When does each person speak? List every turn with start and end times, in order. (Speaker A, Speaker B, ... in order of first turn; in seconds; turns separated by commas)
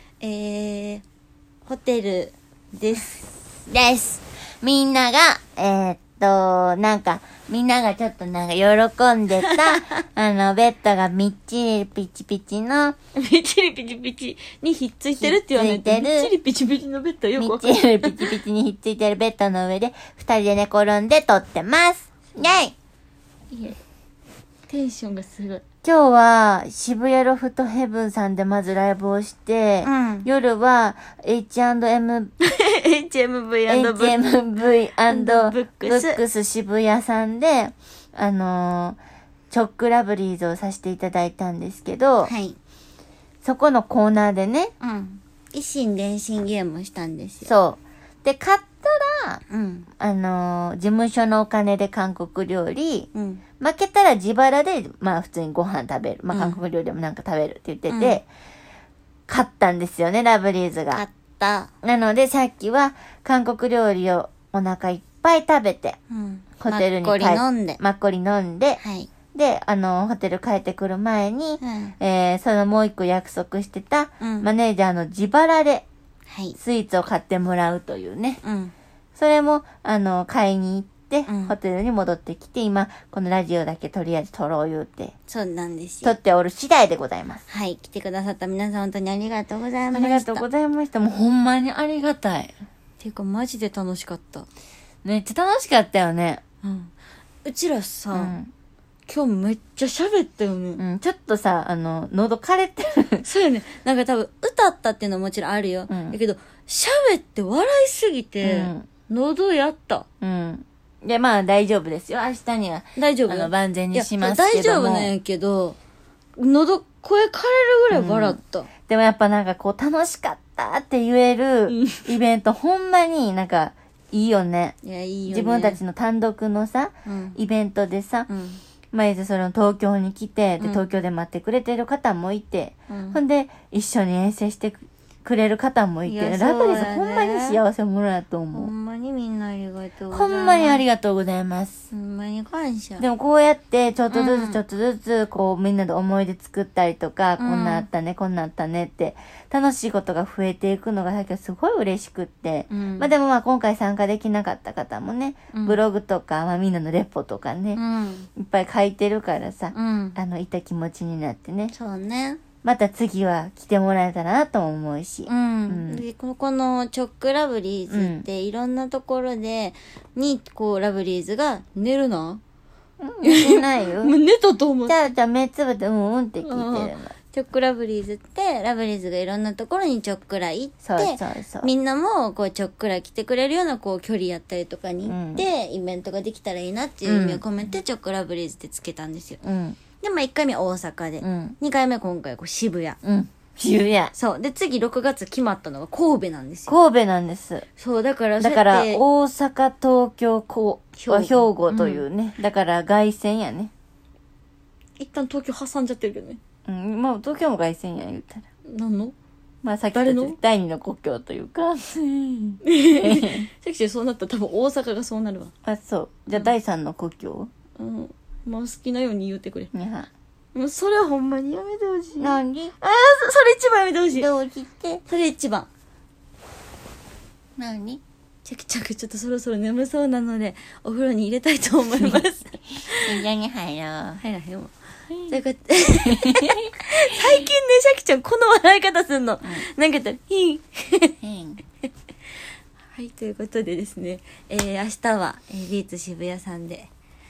Speaker A: 0.2-1.0, Speaker A: 1.7-3.2, Speaker B: 3.7-13.0, Speaker A: 9.4-10.0, Speaker A: 13.2-18.3, Speaker B: 15.2-16.3, Speaker B: 17.4-22.8, Speaker A: 23.5-23.8, Speaker A: 24.7-25.6, Speaker B: 25.8-32.3, Speaker A: 29.8-30.3, Speaker A: 32.4-34.2, Speaker B: 33.7-39.0, Speaker A: 35.1-36.2, Speaker B: 39.5-42.3, Speaker A: 42.3-42.6, Speaker B: 43.4-44.7, Speaker A: 44.8-47.5, Speaker B: 47.5-49.4, Speaker A: 49.5-49.9, Speaker B: 50.0-53.1, Speaker A: 53.1-53.4, Speaker B: 53.6-58.3, Speaker A: 56.3-56.6, Speaker A: 57.9-58.2, Speaker B: 59.3-61.0, Speaker A: 60.9-61.7, Speaker B: 61.8-66.0, Speaker A: 66.1-67.8, Speaker B: 66.6-68.8, Speaker A: 68.8-69.1, Speaker B: 69.3-75.9, Speaker A: 71.6-71.9, Speaker A: 74.2-74.5, Speaker A: 76.3-76.6, Speaker B: 76.6-78.4, Speaker A: 78.4-78.7, Speaker B: 79.2-85.1, Speaker A: 81.3-81.6, Speaker A: 85.3-86.2, Speaker B: 86.0-87.4, Speaker A: 87.5-90.5, Speaker B: 89.9-92.5, Speaker A: 93.0-94.5, Speaker B: 95.0-96.4, Speaker A: 96.6-96.9, Speaker A: 97.5-98.3, Speaker B: 98.1-98.5, Speaker A: 99.1-100.8, Speaker B: 100.8-103.2, Speaker A: 103.2-110.1, Speaker B: 105.9-106.2, Speaker B: 108.4-108.9, Speaker B: 110.2-115.1, Speaker A: 113.0-115.8, Speaker A: 116.4-118.7, Speaker B: 117.9-124.8, Speaker A: 121.7-122.0, Speaker A: 124.8-125.8, Speaker B: 125.3-128.3, Speaker A: 127.1-127.4, Speaker A: 128.3-128.6, Speaker B: 128.9-138.7, Speaker A: 132.9-133.2, Speaker A: 136.1-137.6, Speaker A: 138.5-140.8, Speaker B: 140.1-141.8, Speaker A: 141.9-143.1, Speaker B: 143.0-157.8, Speaker A: 144.1-144.6, Speaker A: 147.4-147.9, Speaker A: 152.7-153.1, Speaker A: 155.5-155.8, Speaker A: 157.8-158.3, Speaker B: 158.4-161.7, Speaker A: 159.7-160.2, Speaker A: 161.7-162.4, Speaker B: 162.6-166.0, Speaker A: 165.3-172.4, Speaker B: 167.9-168.3, Speaker B: 173.0-174.2, Speaker A: 173.2-175.0, Speaker B: 174.9-177.1, Speaker A: 176.4-189.4, Speaker B: 180.8-181.7, Speaker B: 185.1-185.5, Speaker B: 187.1-187.4, Speaker B: 189.4-189.8, Speaker A: 190.0-193.0, Speaker B: 191.2-191.6, Speaker B: 193.0-194.1, Speaker A: 194.1-196.8, Speaker B: 196.7-197.7, Speaker A: 197.8-199.0, Speaker B: 198.4-203.7, Speaker A: 201.0-202.0, Speaker A: 205.0-206.4, Speaker B: 206.7-208.4, Speaker A: 208.7-209.1, Speaker B: 209.6-213.5, Speaker A: 209.9-210.4, Speaker A: 212.6-215.5, Speaker B: 215.6-217.5, Speaker A: 217.8-219.7, Speaker B: 219.7-220.1, Speaker A: 220.6-224.3, Speaker B: 222.2-222.7, Speaker B: 224.1-225.0, Speaker A: 225.1-225.7, Speaker B: 227.6-228.0, Speaker A: 228.4-233.2, Speaker B: 233.0-234.2, Speaker A: 234.2-234.7, Speaker B: 235.1-235.4, Speaker A: 235.3-241.1, Speaker B: 236.1-236.5, Speaker B: 241.2-241.6, Speaker A: 242.9-246.9